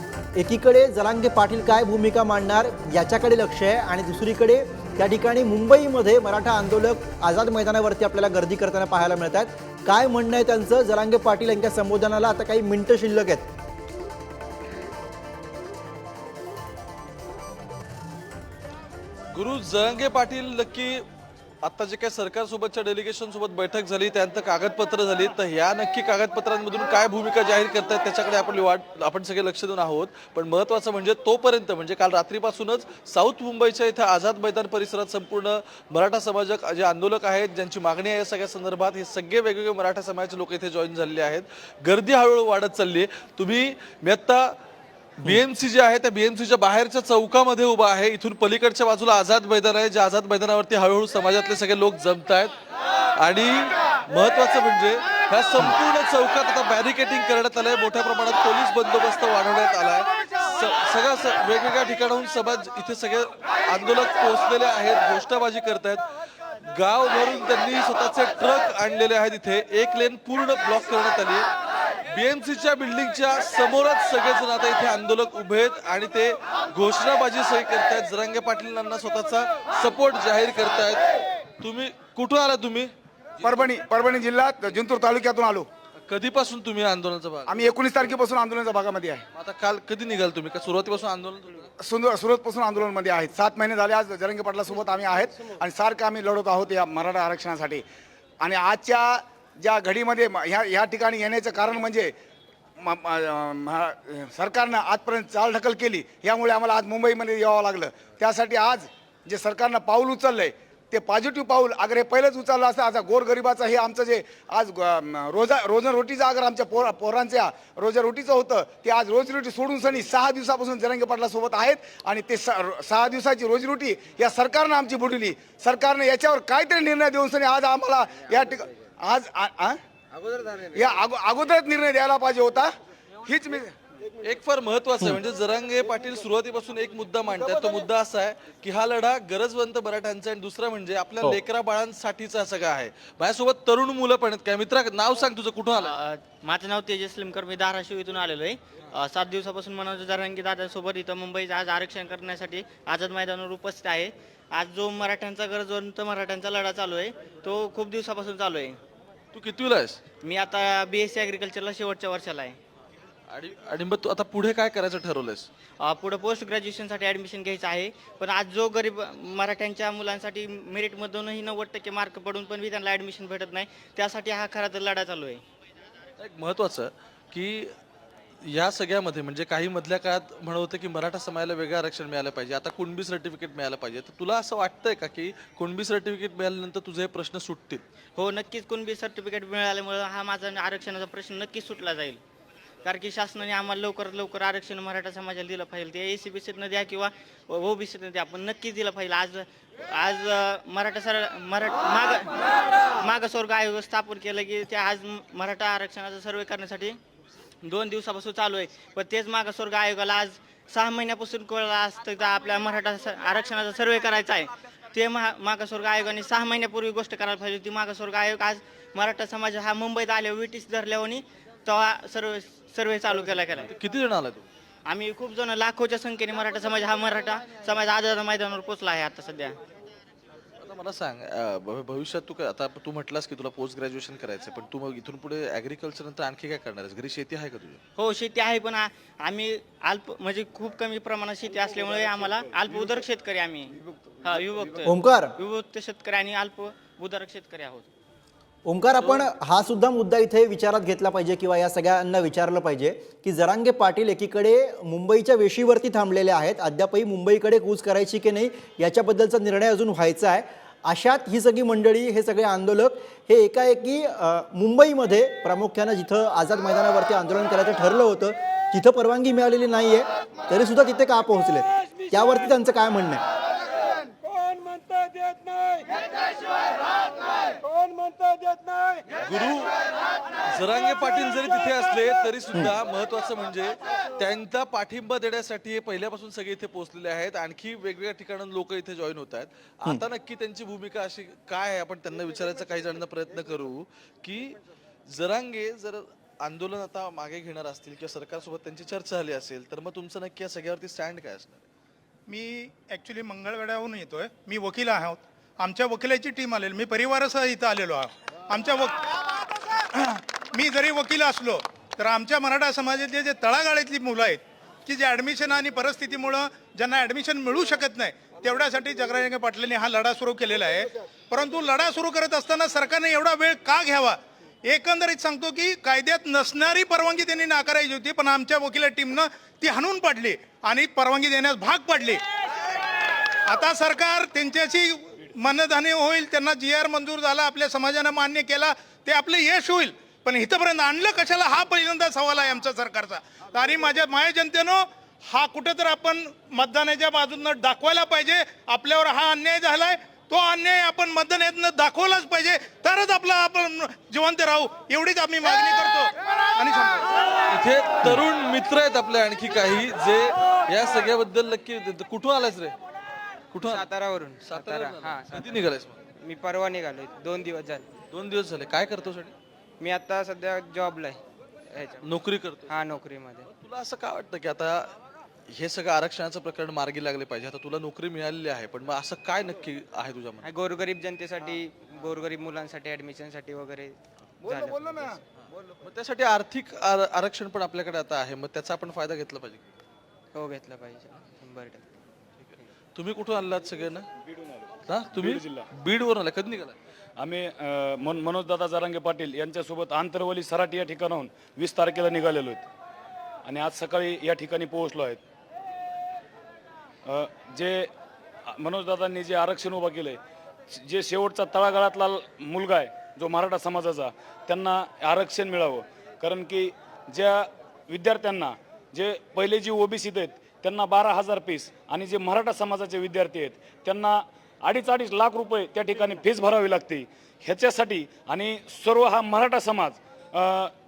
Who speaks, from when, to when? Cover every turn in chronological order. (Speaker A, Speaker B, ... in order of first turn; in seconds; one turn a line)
Speaker A: 0.3-13.5
Speaker B: 19.3-21.1
Speaker B: 21.6-44.6
Speaker B: 45.2-52.5
Speaker B: 53.2-66.1
Speaker B: 66.6-71.5
Speaker B: 72.1-82.9
Speaker C: 83.4-85.7
Speaker B: 86.0-87.7
Speaker C: 87.5-89.2
Speaker B: 89.3-91.7
Speaker C: 91.8-97.8
Speaker C: 98.4-102.1
Speaker C: 102.8-129.8
Speaker C: 130.7-132.7
Speaker C: 133.2-133.7
Speaker B: 134.2-146.0
Speaker D: 145.8-158.8
Speaker B: 159.3-160.0
Speaker D: 160.2-162.6
Speaker B: 163.3-165.5
Speaker D: 165.8-175.4
Speaker B: 176.2-177.8
Speaker B: 178.4-187.8
Speaker D: 188.2-192.2
Speaker D: 192.8-207.0
Speaker D: 207.6-223.7
Speaker B: 223.6-224.5
Speaker D: 224.9-229.6
Speaker B: 230.6-237.8
Speaker D: 238.0-247.9
Speaker A: 244.8-245.3
Speaker A: 248.7-273.2
Speaker E: 274.3-276.0
Speaker E: 277.7-279.0
Speaker B: 279.1-279.7
Speaker B: 280.5-301.7
Speaker F: 302.3-309.1
Speaker F: 309.9-332.2
Speaker F: 333.5-357.1
Speaker B: 357.5-362.8
Speaker B: 363.5-363.9
Speaker E: 363.6-365.7
Speaker B: 364.4-366.0
Speaker E: 366.2-367.9
Speaker B: 368.1-369.4
Speaker E: 369.8-372.0
Speaker B: 372.0-372.8
Speaker E: 372.7-373.5
Speaker B: 373.5-374.9
Speaker B: 375.5-380.5
Speaker E: 380.4-385.2
Speaker B: 385.4-389.7
Speaker E: 390.3-391.9
Speaker B: 392.4-394.1
Speaker B: 394.9-396.8
Speaker G: 395.1-395.7
Speaker G: 397.2-402.6
Speaker G: 403.5-405.2
Speaker G: 407.1-407.9
Speaker G: 408.6-410.2
Speaker G: 410.7-430.7